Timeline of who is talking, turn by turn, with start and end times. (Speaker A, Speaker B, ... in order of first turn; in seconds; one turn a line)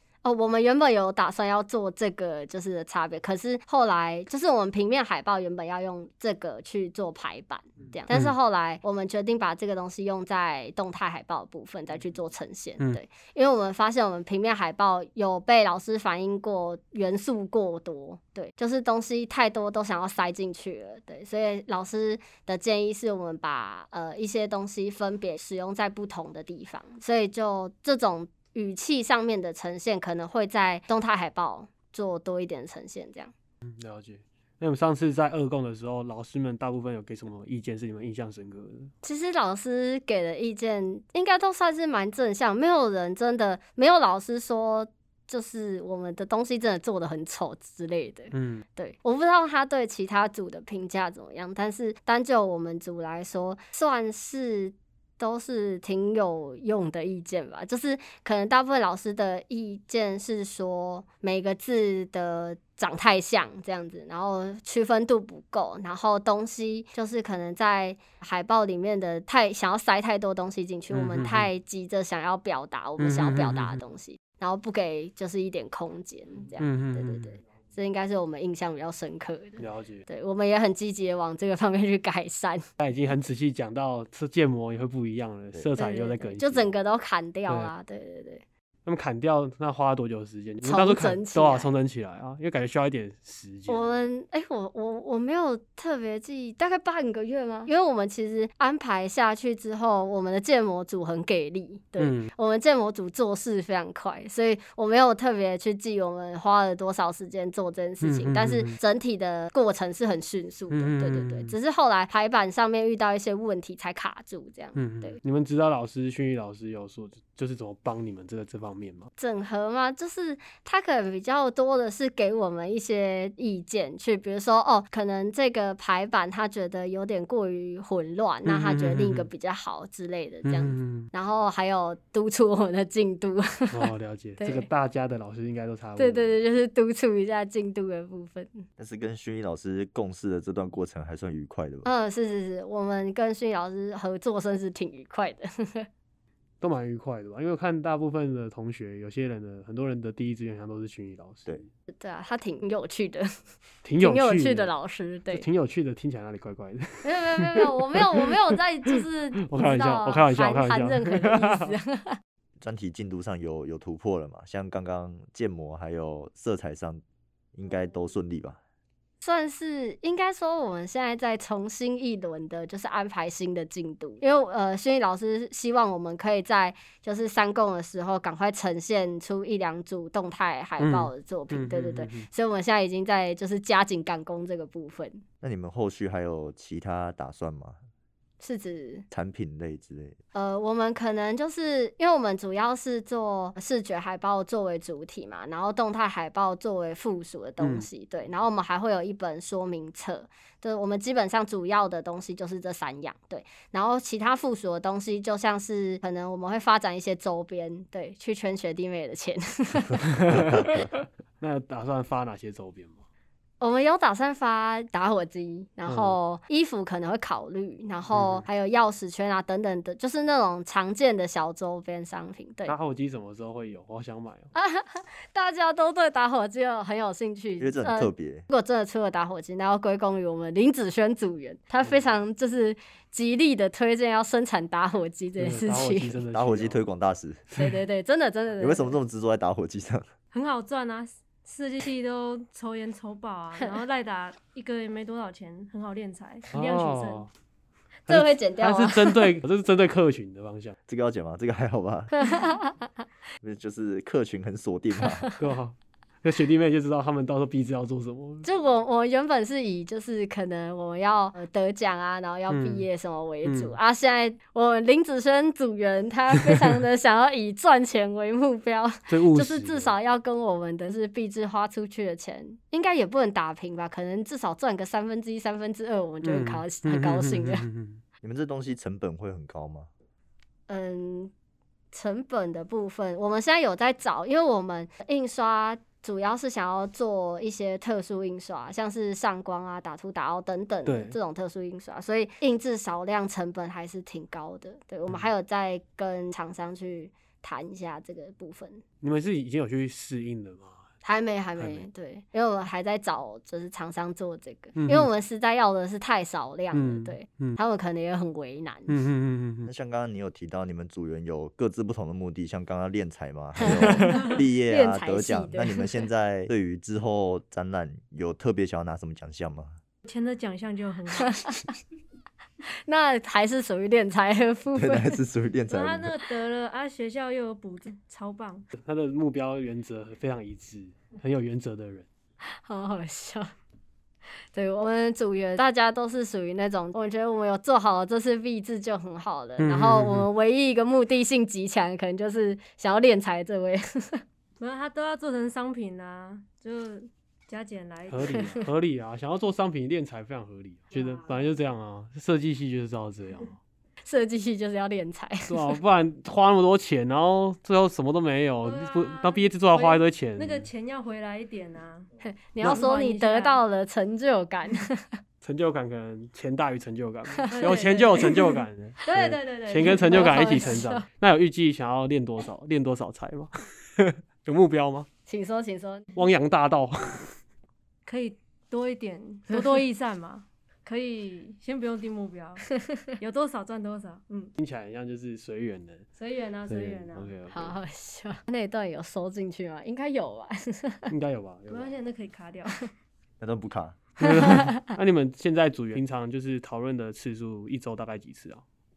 Speaker A: 0.2-33.3
Speaker B: 33.7-38.9
Speaker A: 39.0-82.6
Speaker B: 48.3-48.6
Speaker B: 70.9-71.5
Speaker B: 73.0-73.8
Speaker B: 76.6-77.3
Speaker B: 79.6-80.0
Speaker B: 82.8-86.7
Speaker A: 85.8-88.4
Speaker B: 88.8-93.9
Speaker A: 90.6-91.7
Speaker A: 93.7-115.2
Speaker B: 102.0-102.3
Speaker B: 108.0-108.8
Speaker B: 110.7-111.5
Speaker B: 114.7-119.1
Speaker A: 119.2-134.7
Speaker B: 128.4-129.3
Speaker B: 130.4-131.1
Speaker B: 133.7-136.4
Speaker A: 136.0-138.7
Speaker C: 138.8-141.9
Speaker A: 141.8-145.9
Speaker B: 146.6-151.7
Speaker A: 151.9-153.4
Speaker B: 153.8-154.7
Speaker A: 154.0-155.4
Speaker B: 155.3-158.3
Speaker A: 157.0-162.2
Speaker B: 159.4-161.7
Speaker C: 162.6-167.0
Speaker C: 167.5-168.6
Speaker A: 169.2-185.2
Speaker B: 180.8-182.3
Speaker C: 185.4-187.8
Speaker A: 188.4-189.0
Speaker C: 189.1-190.2
Speaker A: 190.3-210.7
Speaker B: 197.6-197.8
Speaker B: 210.1-213.0
Speaker A: 213.6-222.7
Speaker B: 215.9-216.2
Speaker B: 218.1-218.4
Speaker B: 222.7-224.5
Speaker A: 224.5-236.2
Speaker C: 227.6-228.4
Speaker B: 235.4-236.8
Speaker C: 236.3-237.4
Speaker B: 237.5-237.8
Speaker A: 237.6-239.0
Speaker C: 238.6-240.1
Speaker D: 240.3-247.3
Speaker B: 246.5-247.3
Speaker B: 248.1-250.8
Speaker A: 248.1-249.3
Speaker C: 250.9-252.3
Speaker A: 252.2-252.9
Speaker C: 253.4-255.3
Speaker B: 255.4-258.4
Speaker A: 258.4-277.6
Speaker B: 262.5-262.9
Speaker B: 263.4-263.7
Speaker B: 269.1-269.9
Speaker B: 276.2-278.0
Speaker C: 278.2-279.9
Speaker A: 280.7-281.3
Speaker A: 281.9-298.8
Speaker B: 290.9-291.1
Speaker B: 299.0-300.8
Speaker A: 301.0-309.0
Speaker B: 301.6-301.9
Speaker B: 304.8-305.1
Speaker B: 306.7-307.6
Speaker B: 308.9-309.7
Speaker C: 309.6-319.7
Speaker A: 313.6-316.0
Speaker B: 313.6-314.3
Speaker D: 320.0-321.5
Speaker A: 321.2-321.7
Speaker A: 322.8-325.2
Speaker C: 324.7-326.2
Speaker D: 325.7-328.7
Speaker B: 328.8-332.1
Speaker A: 332.5-333.5
Speaker A: 334.5-344.2
Speaker B: 339.6-340.3
Speaker D: 344.6-348.6
Speaker B: 348.1-353.6
Speaker D: 350.9-351.4
Speaker A: 354.1-355.8
Speaker B: 355.5-360.7
Speaker D: 358.6-362.1
Speaker A: 362.2-365.2
Speaker D: 362.6-363.6
Speaker B: 365.4-375.1
Speaker A: 367.3-368.3
Speaker D: 367.5-368.5
Speaker D: 369.0-371.0
Speaker A: 369.9-370.9
Speaker A: 375.3-376.0
Speaker B: 376.1-377.3
Speaker D: 378.1-382.6
Speaker A: 382.9-383.1
Speaker D: 383.2-384.5
Speaker B: 384.6-386.1
Speaker D: 386.2-387.3
Speaker B: 386.7-387.7
Speaker A: 387.5-391.1
Speaker B: 391.1-392.0
Speaker D: 391.7-392.9
Speaker C: 393.4-394.0
Speaker B: 394.2-398.6
Speaker A: 394.2-394.9